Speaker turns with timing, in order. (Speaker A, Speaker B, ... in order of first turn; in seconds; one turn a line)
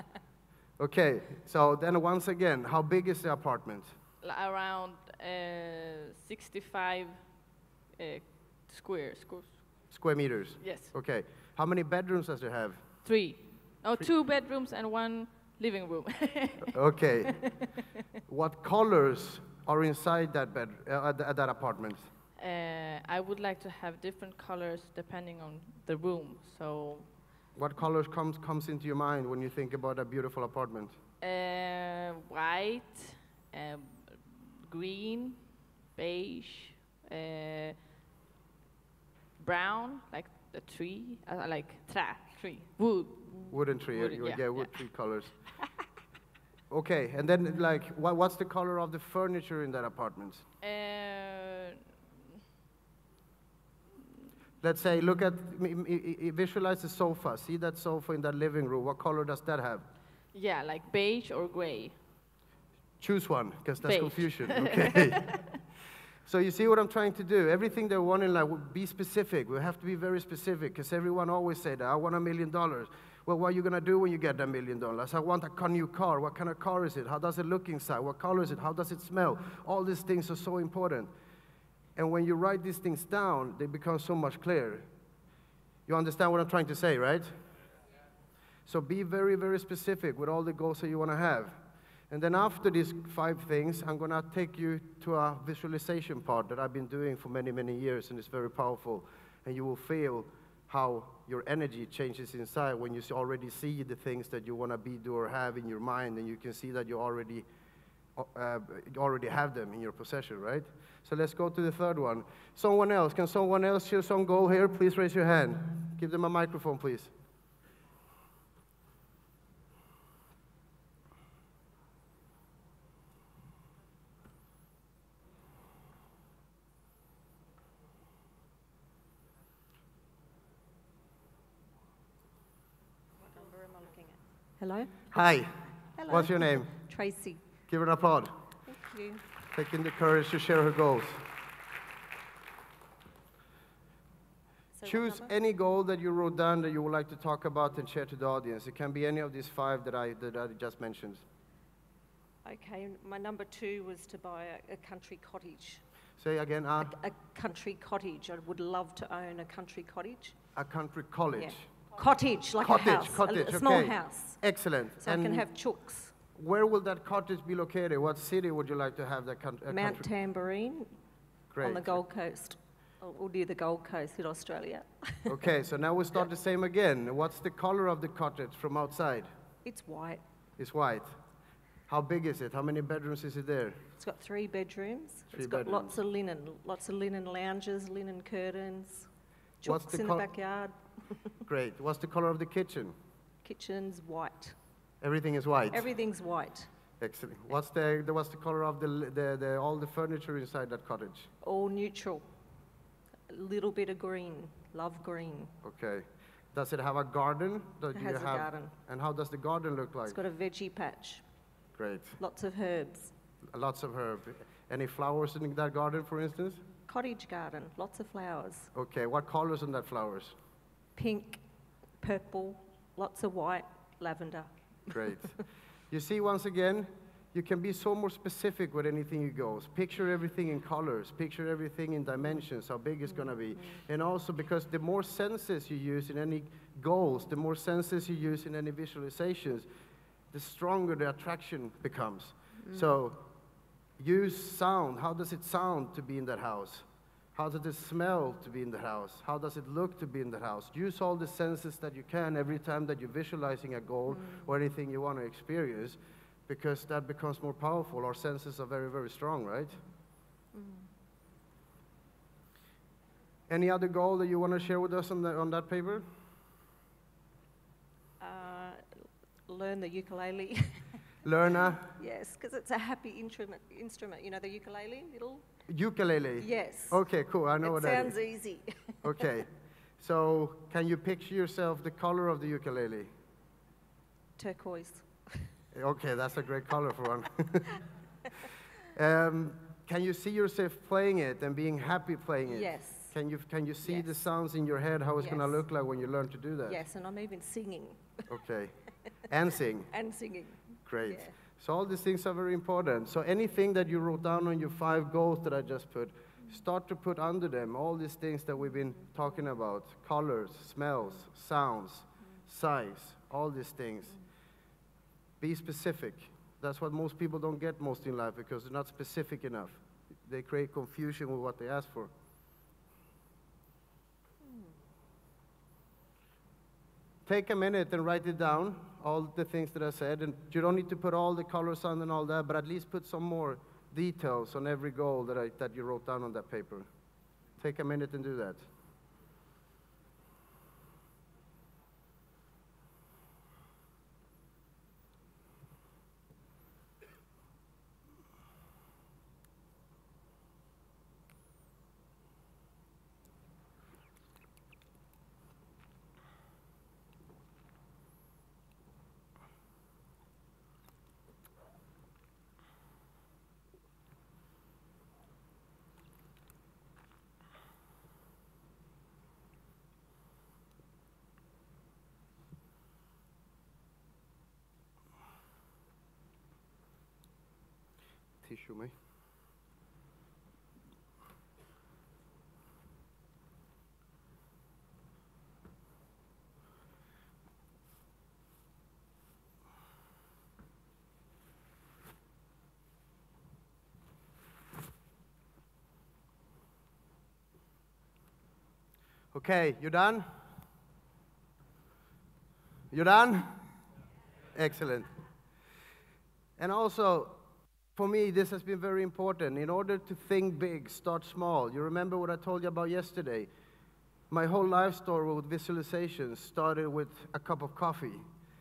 Speaker A: 0.8-3.9
Speaker B: 4.2-9.9
Speaker A: 9.9-13.0
Speaker B: 10.6-10.9
Speaker B: 13.0-17.5
Speaker A: 16.7-17.4
Speaker A: 18.3-22.1
Speaker B: 22.4-27.3
Speaker A: 27.6-31.0
Speaker B: 31.2-37.9
Speaker B: 39.4-44.9
Speaker A: 43.5-45.4
Speaker A: 46.7-50.4
Speaker B: 50.6-51.8
Speaker A: 54.6-59.8
Speaker B: 60.3-62.0
Speaker A: 63.0-65.2
Speaker B: 63.8-65.4
Speaker A: 66.3-81.1
Speaker A: 82.0-84.8
Speaker A: 85.9-87.3
Speaker A: 88.7-91.5
Speaker A: 92.1-107.5
Speaker A: 108.2-117.1
Speaker C: 133.2-137.5
Speaker A: 135.1-136.7
Speaker A: 137.7-138.3
Speaker C: 138.7-139.2
Speaker A: 139.5-141.2
Speaker C: 144.7-145.3
Speaker A: 144.8-151.2
Speaker C: 152.4-155.8
Speaker A: 156.2-156.9
Speaker C: 156.8-160.4
Speaker A: 160.5-161.7
Speaker C: 161.3-166.1
Speaker A: 162.6-165.5
Speaker A: 166.3-170.1
Speaker C: 169.7-171.0
Speaker A: 171.5-172.0
Speaker C: 171.6-175.4
Speaker A: 175.3-179.3
Speaker C: 179.6-180.2
Speaker A: 180.6-181.2
Speaker A: 181.9-183.8
Speaker C: 184.0-189.1
Speaker A: 185.3-185.9
Speaker C: 189.6-191.3
Speaker A: 189.6-190.2
Speaker A: 191.4-192.9
Speaker C: 193.4-194.6
Speaker A: 195.0-195.9
Speaker C: 195.7-196.7
Speaker A: 197.0-201.3
Speaker C: 201.4-202.3
Speaker C: 203.3-205.5
Speaker A: 205.6-210.2
Speaker C: 207.9-208.7
Speaker C: 210.1-211.2
Speaker A: 211.8-212.2
Speaker C: 212.2-213.1
Speaker A: 213.5-216.6
Speaker C: 216.9-218.7
Speaker A: 218.7-220.3
Speaker C: 220.9-224.5
Speaker A: 224.9-225.3
Speaker A: 225.9-239.7
Speaker C: 233.1-233.8
Speaker A: 240.3-243.3
Speaker C: 242.6-243.0
Speaker A: 244.0-259.8
Speaker C: 254.1-254.5
Speaker C: 260.5-260.9
Speaker A: 263.5-266.0
Speaker C: 268.2-271.0
Speaker A: 271.2-271.9
Speaker C: 271.6-275.4
Speaker A: 275.7-278.1
Speaker C: 276.4-277.0
Speaker C: 277.6-279.2
Speaker A: 279.0-279.5
Speaker A: 280.0-283.1
Speaker C: 284.4-285.5
Speaker A: 285.7-287.8
Speaker A: 288.9-296.8
Speaker C: 292.4-293.1
Speaker C: 293.8-294.2
Speaker C: 295.2-295.6
Speaker C: 296.7-298.1
Speaker A: 298.3-299.9
Speaker C: 299.9-301.4
Speaker A: 300.8-314.1
Speaker A: 315.4-322.1
Speaker C: 324.4-324.7
Speaker A: 327.3-336.9
Speaker A: 337.6-338.6
Speaker A: 378.4-378.9
Speaker A: 399.3-400.3
Speaker A: 402.9-403.6
Speaker A: 404.5-405.1
Speaker A: 406.6-407.4
Speaker A: 407.9-413.5
Speaker A: 414.3-418.2